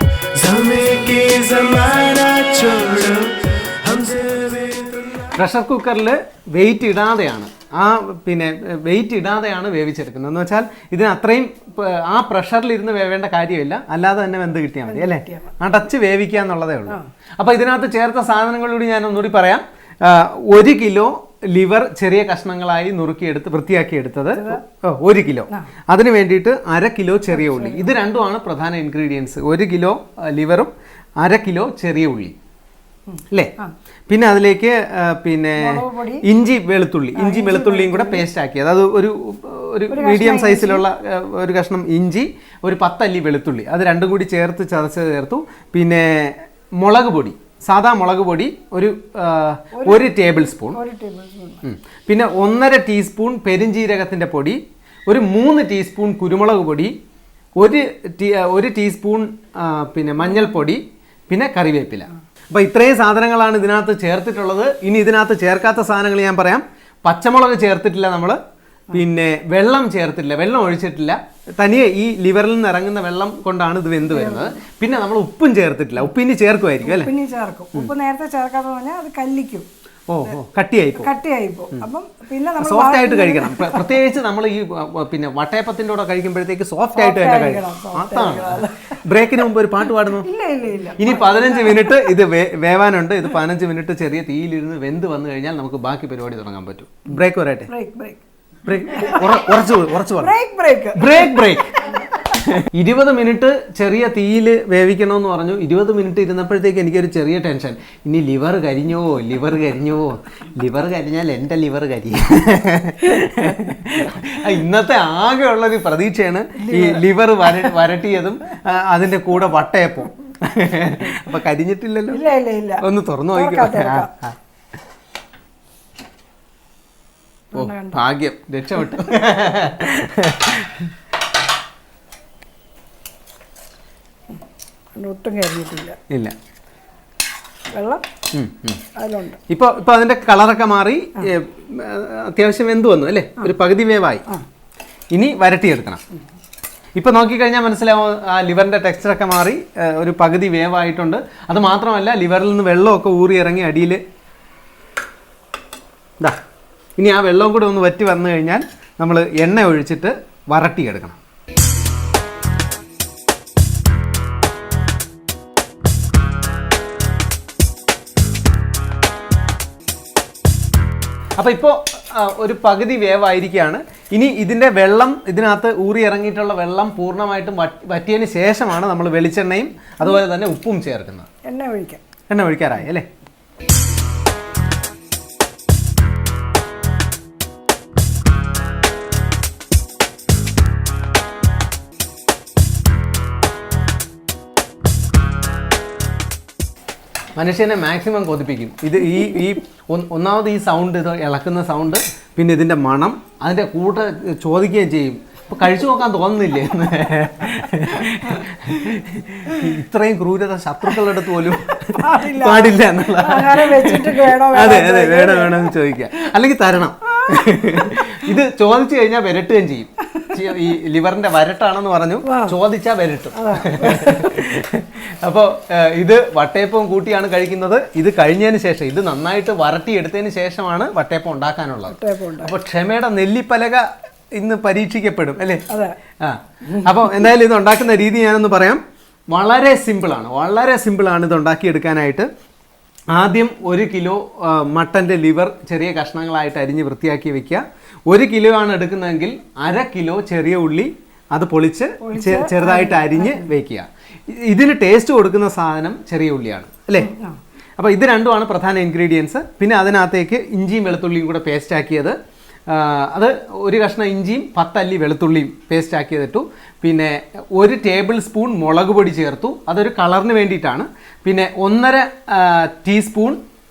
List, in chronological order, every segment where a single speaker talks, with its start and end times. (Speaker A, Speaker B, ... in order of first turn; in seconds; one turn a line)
Speaker A: 0.3-32.4
Speaker B: 14.9-15.5
Speaker B: 24.4-24.6
Speaker B: 27.3-28.0
Speaker B: 33.1-33.7
Speaker A: 34.1-50.8
Speaker B: 35.6-36.2
Speaker B: 37.1-38.2
Speaker B: 39.9-40.8
Speaker B: 49.8-50.1
Speaker B: 50.7-51.6
Speaker A: 51.6-56.9
Speaker A: 57.6-68.4
Speaker A: 68.9-77.1
Speaker B: 74.1-74.6
Speaker B: 76.8-79.7
Speaker A: 80.1-81.1
Speaker B: 81.0-83.9
Speaker A: 82.6-90.3
Speaker B: 87.0-89.0
Speaker B: 90.2-92.0
Speaker A: 91.0-97.7
Speaker B: 97.7-98.2
Speaker A: 98.7-100.3
Speaker B: 98.9-99.3
Speaker B: 100.2-101.4
Speaker A: 101.0-101.7
Speaker A: 102.2-122.2
Speaker B: 116.6-117.0
Speaker B: 122.1-124.1
Speaker A: 122.8-124.3
Speaker B: 127.5-128.0
Speaker A: 127.5-130.9
Speaker B: 135.0-136.0
Speaker B: 137.7-138.0
Speaker A: 138.3-138.8
Speaker B: 139.0-139.4
Speaker A: 139.5-144.2
Speaker A: 145.1-146.0
Speaker A: 147.0-154.0
Speaker A: 157.0-161.2
Speaker A: 171.4-181.3
Speaker B: 181.5-182.0
Speaker A: 182.3-183.1
Speaker A: 197.4-235.6
Speaker B: 212.0-215.7
Speaker B: 222.2-222.6
Speaker B: 223.4-224.3
Speaker B: 231.9-232.6
Speaker B: 235.7-236.0
Speaker A: 236.2-242.3
Speaker A: 243.1-257.1
Speaker B: 252.0-253.5
Speaker B: 257.0-257.4
Speaker A: 257.8-262.2
Speaker A: 262.7-273.4